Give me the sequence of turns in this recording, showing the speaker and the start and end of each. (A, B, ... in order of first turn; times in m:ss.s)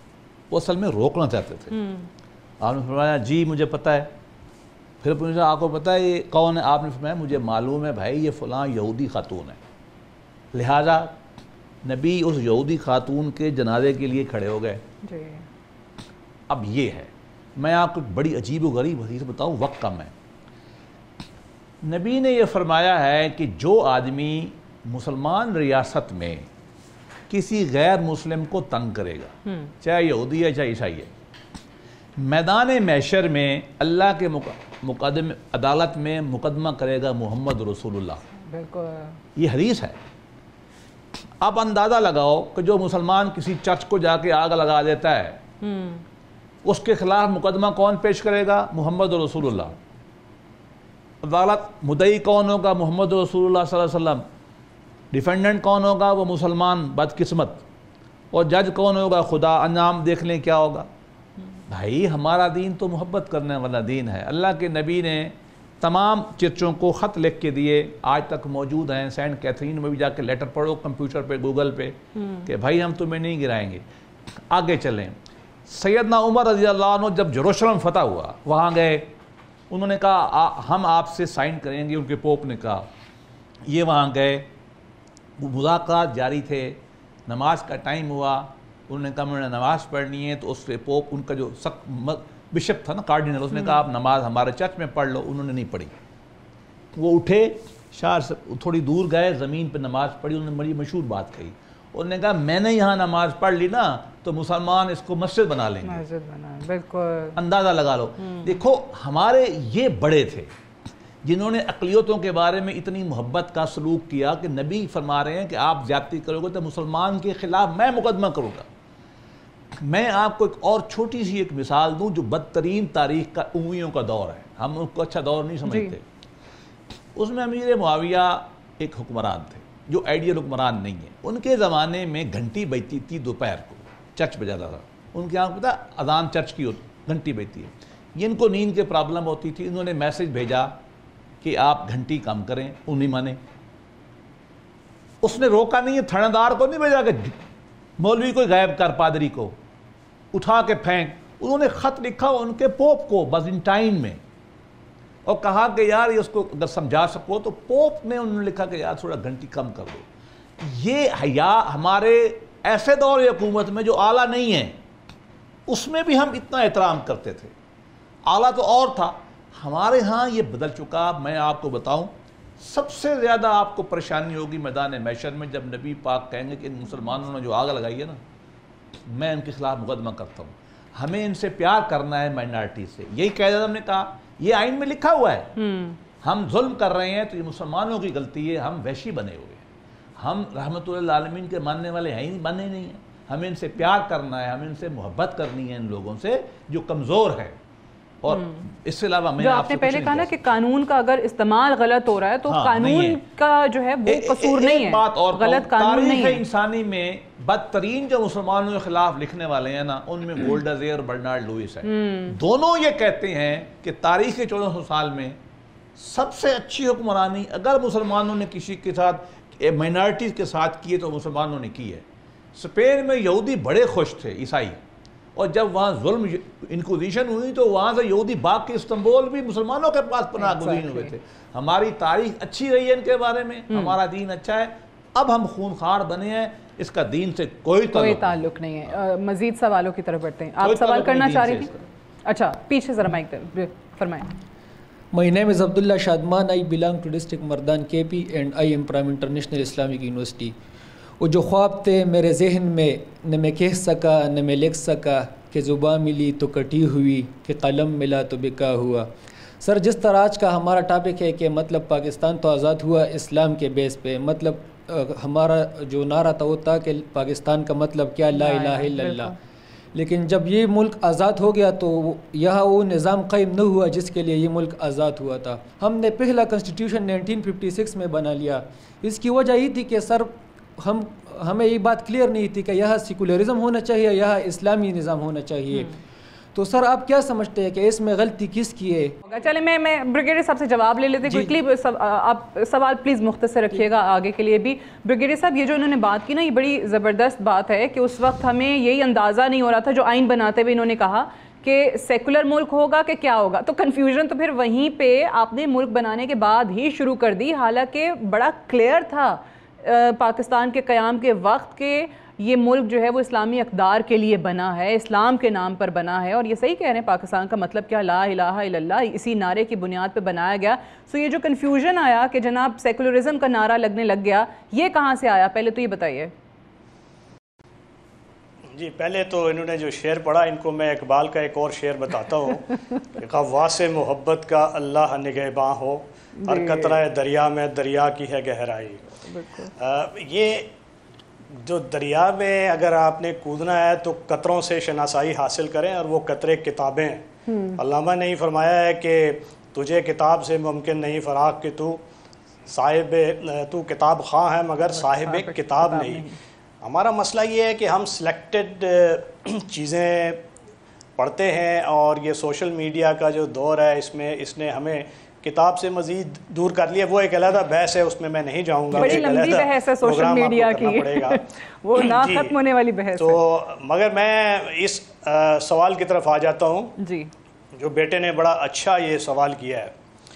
0:00.5-0:01.8 A
0:01.7-0:02.1 B
0:02.6-0:04.1 A
0:05.0-0:09.6 A
0:10.5-0:11.2 A
0:11.8-0:14.8 A
0:15.0-0:15.4 B
0:16.5-0:20.1 A
0:21.8-0:26.5 A
0:27.3-0:31.1 A
0:29.5-0:29.7 B
0:32.2-0:38.2 A
0:38.5-0:39.2 B
0:39.4-0:40.0 A
0:41.4-0:45.4 A
0:45.6-0:46.0 B
0:46.6-0:49.8 A
0:51.2-0:54.3 A
0:55.1-0:57.6 A
0:58.3-1:00.9 A
1:01.7-1:13.8 A
1:12.2-1:12.5 B
1:14.5-1:15.2 A
1:15.7-1:19.1 A
1:19.7-1:22.9 A
1:23.6-1:24.5 A
1:25.4-1:35.9 A
1:33.5-1:33.8 B
1:36.9-1:46.0 A
1:45.8-1:47.4 B
1:47.4-1:50.5 A
1:48.2-1:48.6 B
1:51.2-1:58.7 A
1:59.8-2:06.0 A
2:05.7-2:05.9 B
2:07.2-2:20.8 A
2:21.4-2:23.4 A
2:25.2-2:27.4 A
2:28.0-2:29.6 A
2:30.3-2:34.2 A
2:35.2-2:40.1 A
2:40.6-2:44.8 A
2:45.7-2:47.5 A
2:48.3-2:58.2 A
2:59.1-3:05.6 A
3:05.6-3:06.0 B
3:06.2-3:09.6 A
3:10.2-3:17.6 A
3:18.2-3:20.3 A
3:18.3-3:18.7 B
3:19.4-3:26.4 B
3:22.5-3:23.2 A
3:24.1-3:35.4 A
3:31.8-3:32.3 B
3:36.0-3:44.8 A
3:45.4-3:58.4 A
3:50.4-3:51.1 B
3:53.7-3:54.0 B
3:57.9-4:01.7 B
4:00.6-4:01.8 A
4:02.3-4:04.3 B
4:05.1-4:10.6 C
4:11.2-4:19.1 C
4:19.6-4:29.4 C
4:28.3-4:29.3 B
4:29.9-4:46.0 C
4:46.6-4:49.1 C
4:49.3-5:26.3 B
4:51.3-4:51.5 C
5:28.7-5:39.2 D
5:36.4-5:37.0 B
5:39.2-5:39.7 B
5:39.8-5:40.7 D
5:41.6-5:52.0 D
5:47.5-5:47.8 B
5:52.7-5:56.3 D
5:55.1-5:56.4 B
5:56.8-6:00.4 D
6:01.2-6:11.4 D
6:08.9-6:13.4 B
6:12.0-6:12.6 D
6:13.2-6:17.0 D
6:17.0-6:17.3 B
6:17.7-6:19.9 D